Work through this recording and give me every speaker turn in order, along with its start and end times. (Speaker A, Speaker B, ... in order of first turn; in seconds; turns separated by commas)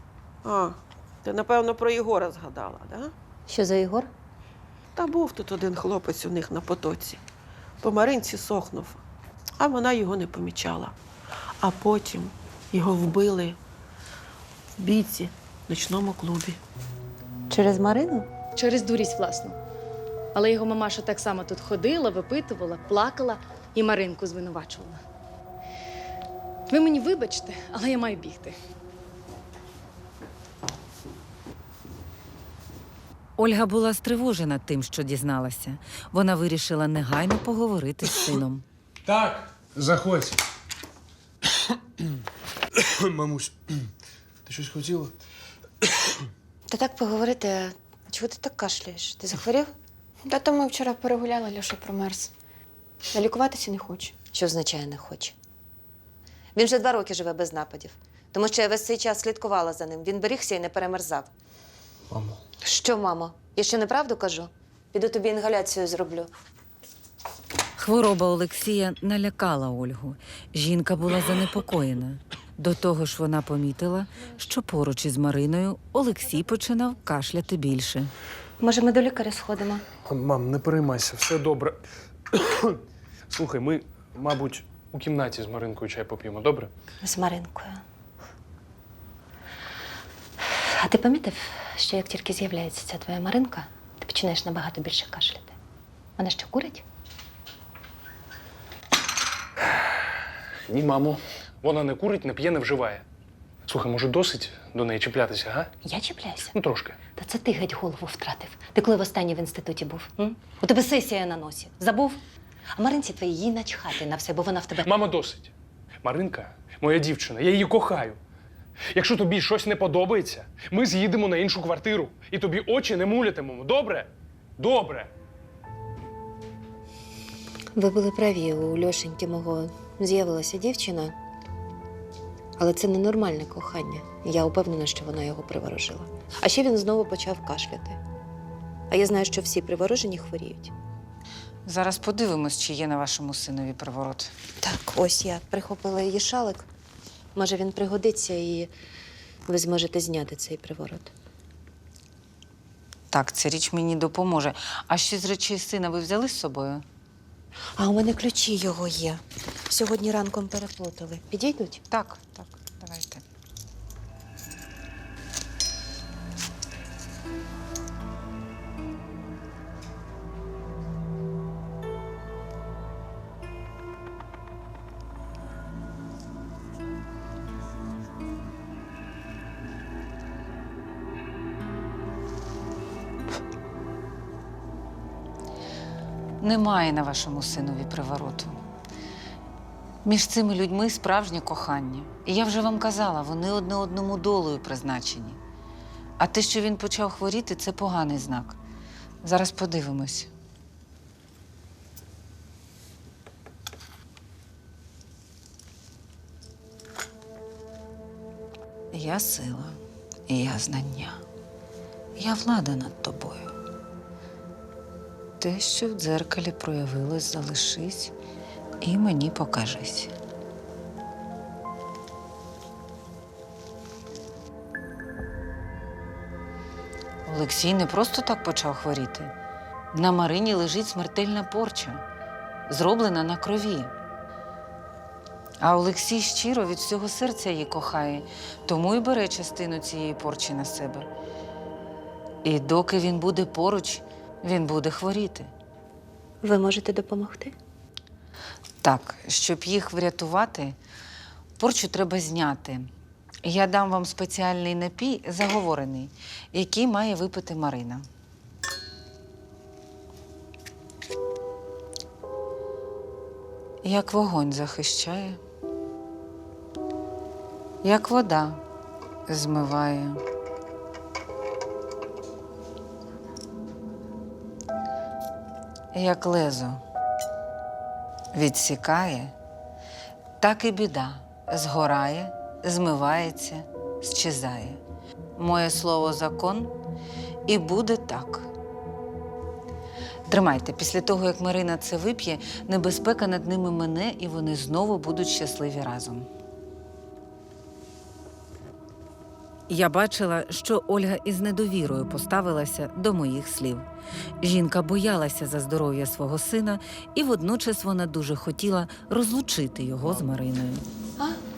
Speaker A: 0.4-3.1, Speaker B: 3.5-4.1, Speaker A: 5.0-7.2, Speaker A: 7.8-9.0, Speaker A: 9.6-10.9, Speaker A: 11.6-13.6, Speaker A: 14.8-16.6, Speaker B: 17.5-18.3, Speaker C: 18.6-19.6, Speaker C: 20.3-25.0, Speaker C: 26.7-28.6, Speaker D: 33.4-38.6, Speaker E: 39.0-40.4, Speaker E: 42.7-43.9, Speaker E: 44.5-45.1, Speaker B: 46.7-49.7, Speaker F: 50.3-52.3, Speaker F: 53.1-54.1, Speaker B: 54.3-55.4, Speaker B: 56.5-61.3, Speaker E: 62.1-62.4, Speaker B: 62.6-66.3, Speaker D: 67.8-78.1, Speaker B: 78.6-79.8, Speaker E: 80.0-81.8, Speaker E: 82.3-86.7, Speaker B: 87.0-87.8, Speaker B: 90.4-95.5, Speaker B: 96.2-96.8, Speaker E: 100.7-103.0, Speaker E: 103.7-105.7, Speaker B: 105.8-106.5, Speaker E: 106.5-107.0, Speaker B: 107.2-112.2, Speaker B: 112.7-114.9, Speaker E: 114.8-115.5, Speaker E: 116.0-118.2, Speaker E: 118.9-125.1, Speaker B: 127.7-131.1, Speaker B: 132.6-138.0, Speaker B: 138.9-140.7, Speaker D: 141.6-144.3, Speaker B: 144.6-146.7, Speaker B: 147.3-148.7, Speaker B: 149.5-151.1, Speaker D: 153.1-156.8, Speaker B: 157.8-161.8, Speaker D: 161.9-163.2, Speaker D: 186.4-188.6, Speaker D: 190.0-195.4, Speaker D: 196.2-198.6, Speaker D: 199.2-200.3, Speaker D: 208.9-211.2, Speaker D: 212.2-213.5, Speaker D: 215.4-218.1, Speaker D: 218.8-220.1, Speaker D: 227.2-229.3, Speaker D: 229.9-232.0, Speaker D: 232.7-233.9, Speaker D: 235.6-241.1, Speaker D: 242.4-245.5, Speaker B: 246.4-247.5, Speaker D: 248.8-250.8, Speaker D: 251.6-252.9, Speaker D: 253.4-258.1, Speaker D: 263.8-265.4, Speaker D: 267.8-268.6, Speaker D: 269.3-270.2, Speaker D: 275.9-276.8, Speaker D: 278.3-279.3, Speaker D: 280.4-284.8, Speaker D: 285.4-286.7, Speaker D: 287.4-288.5, Speaker D: 290.3-296.3, Speaker D: 299.7-303.9, Speaker D: 304.4-310.8